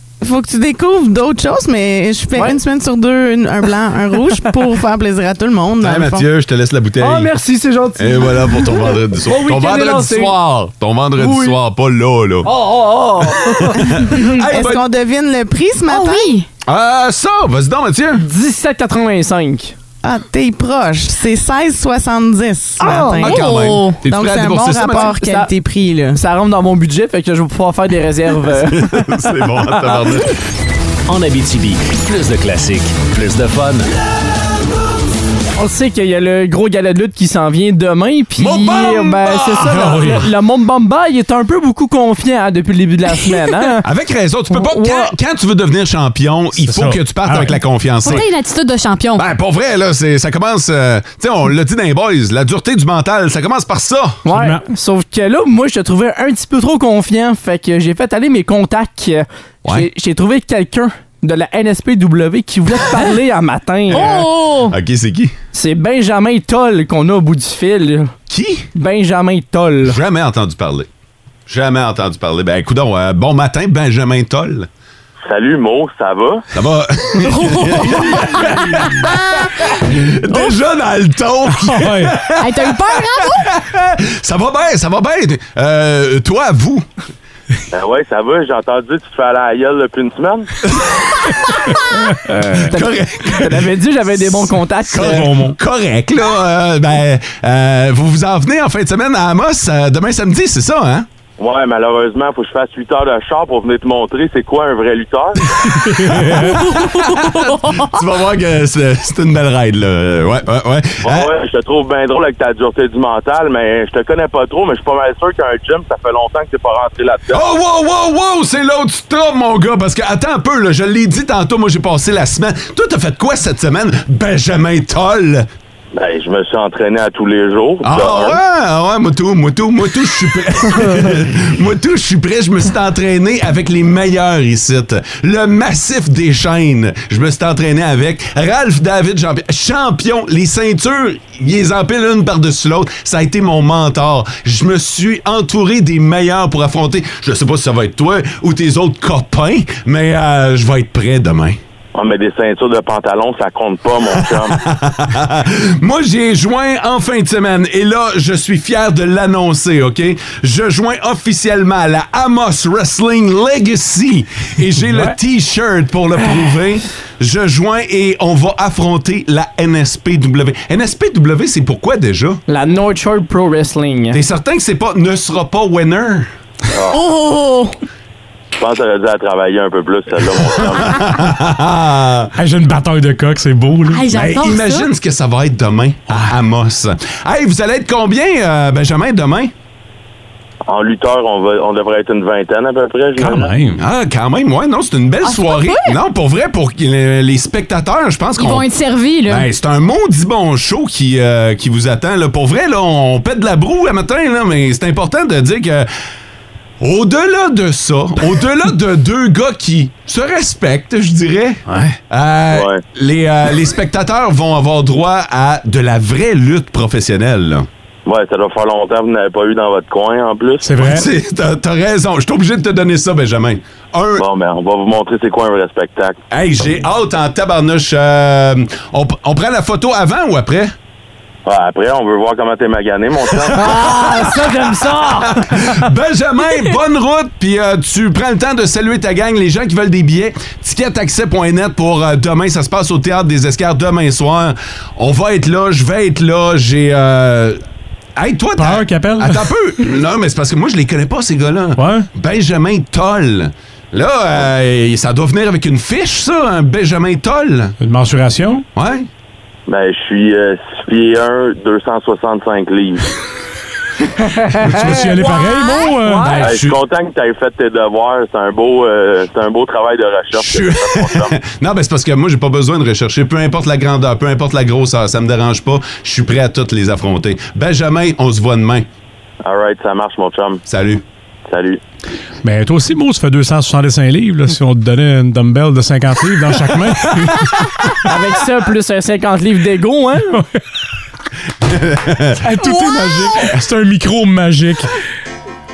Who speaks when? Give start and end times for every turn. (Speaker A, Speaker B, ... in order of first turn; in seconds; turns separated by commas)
Speaker A: 0.2-6.3, Speaker B: 5.8-7.3, Speaker C: 7.0-10.4, Speaker B: 8.0-12.5, Speaker C: 11.2-11.6, Speaker C: 12.4-13.9, Speaker B: 13.9-14.9, Speaker A: 13.9-16.4, Speaker D: 15.9-16.4, Speaker B: 16.7-18.2, Speaker C: 18.2-19.8, Speaker A: 20.0-23.5, Speaker D: 22.8-24.0, Speaker C: 22.8-23.2, Speaker B: 23.2-25.2, Speaker A: 24.0-26.2, Speaker C: 24.9-25.5, Speaker C: 26.1-30.2, Speaker B: 28.7-30.3, Speaker E: 31.1-33.9, Speaker C: 35.6-43.9, Speaker B: 38.4-40.1, Speaker F: 39.7-40.2, Speaker B: 43.8-48.3, Speaker C: 44.5-45.1, Speaker F: 46.6-47.6, Speaker D: 48.0-49.3, Speaker B: 49.2-54.2, Speaker C: 54.2-64.2, Speaker F: 54.3-54.6, Speaker D: 63.9-64.8, Speaker B: 63.9-65.3, Speaker C: 65.5-68.1, Speaker B: 68.3-68.7, Speaker C: 68.7-70.0, Speaker B: 69.9-70.9, Speaker B: 71.5-74.7, Speaker G: 75.2-76.5, Speaker B: 76.5-86.8, Speaker D: 77.2-78.5, Speaker F: 81.6-82.1, Speaker D: 82.4-83.5, Speaker G: 87.7-90.5, Speaker B: 90.7-91.4, Speaker C: 92.3-95.3, Speaker B: 92.6-93.6, Speaker B: 94.9-101.0, Speaker F: 95.1-95.6, Speaker G: 101.4-105.4, Speaker B: 105.5-111.3, Speaker F: 105.9-106.6, Speaker D: 106.5-107.9, Speaker G: 111.0-117.4, Speaker B: 117.3-125.5, Speaker G: 126.0-128.4, Speaker B: 127.8-151.6, Speaker G: 151.9-154.6, Speaker B: 154.2-172.4, Speaker C: 172.5-174.2, Speaker B: 174.1-176.3, Speaker G: 176.7-177.0, Speaker D: 176.9-177.8, Speaker G: 178.6-181.1, Speaker B: 180.8-182.3, Speaker F: 182.4-184.1, Speaker D: 183.9-184.9, Speaker B: 184.1-189.5, Speaker G: 190.7-193.5, Speaker F: 193.2-193.8, Speaker B: 193.8-198.7, Speaker D: 195.2-196.0, Speaker D: 198.4-199.5, Speaker B: 199.3-205.9, Speaker B: 206.8-217.7, Speaker F: 211.7-212.0, Speaker G: 212.5-212.8, Speaker G: 218.1-220.7, Speaker F: 220.6-221.1, Speaker B: 220.8-224.2, Speaker G: 224.2-226.2, Speaker B: 226.3-230.7, Speaker G: 231.4-233.6, Speaker C: 233.5-235.7, Speaker B: 233.6-247.6, Speaker B: 248.2-257.8, Speaker F: 248.6-249.5, Speaker F: 251.8-252.1, Speaker F: 257.8-258.6, Speaker B: 258.8-259.1, Speaker G: 259.7-263.1, Speaker C: 264.2-266.7, Speaker F: 264.6-266.7, Speaker D: 265.5-265.9, Speaker G: 266.4-271.3, Speaker B: 270.4-278.9, Speaker G: 279.4-280.6, Speaker B: 280.7-281.0, Speaker G: 281.5-281.8, Speaker F: 282.4-287.7, Speaker C: 288.1-290.4, Speaker B: 291.6-292.4, Speaker F: 292.4-294.9, Speaker D: 292.6-293.3